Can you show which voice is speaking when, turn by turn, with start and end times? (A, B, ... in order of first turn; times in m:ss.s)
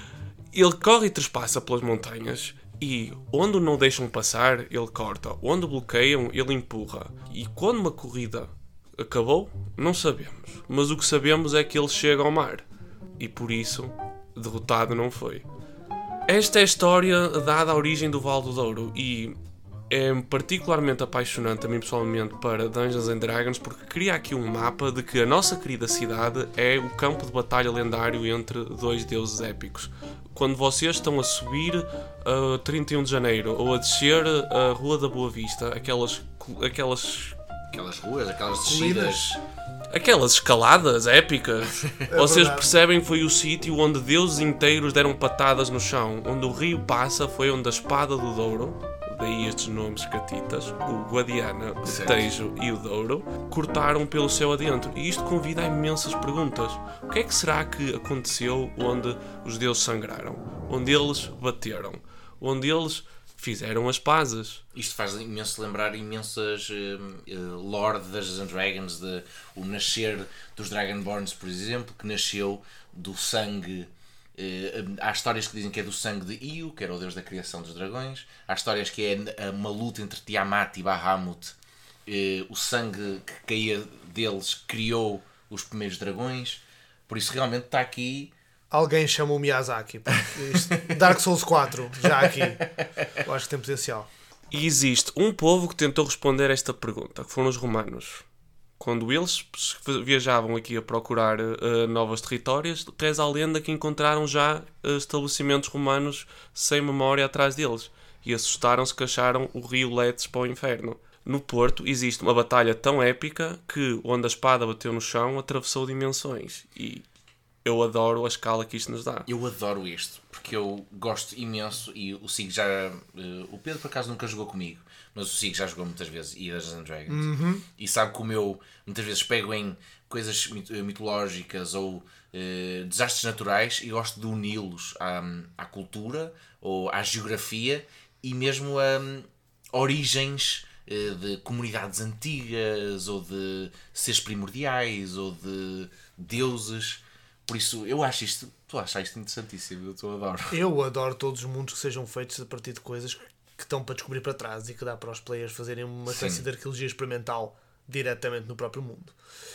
0:00.5-0:12.6 A
0:13.2-0:15.4 A
0:16.3-0:19.4 A
0:19.9-0:37.3 A
0:37.7-0:39.4 B
0:38.6-0:39.4 C
0:39.9-1:04.6 A
0:42.1-0:42.7 C
0:51.8-0:52.3 B
1:04.7-1:28.3 B
1:28.7-1:32.6 C
1:30.5-1:31.0 B
1:33.2-1:34.1 C
1:34.5-1:38.2 A
1:38.8-1:57.0 A
1:57.6-1:59.3 A
1:59.2-2:30.6 B
2:07.1-2:07.6 C
2:30.5-2:39.1 C
2:36.1-2:36.4 B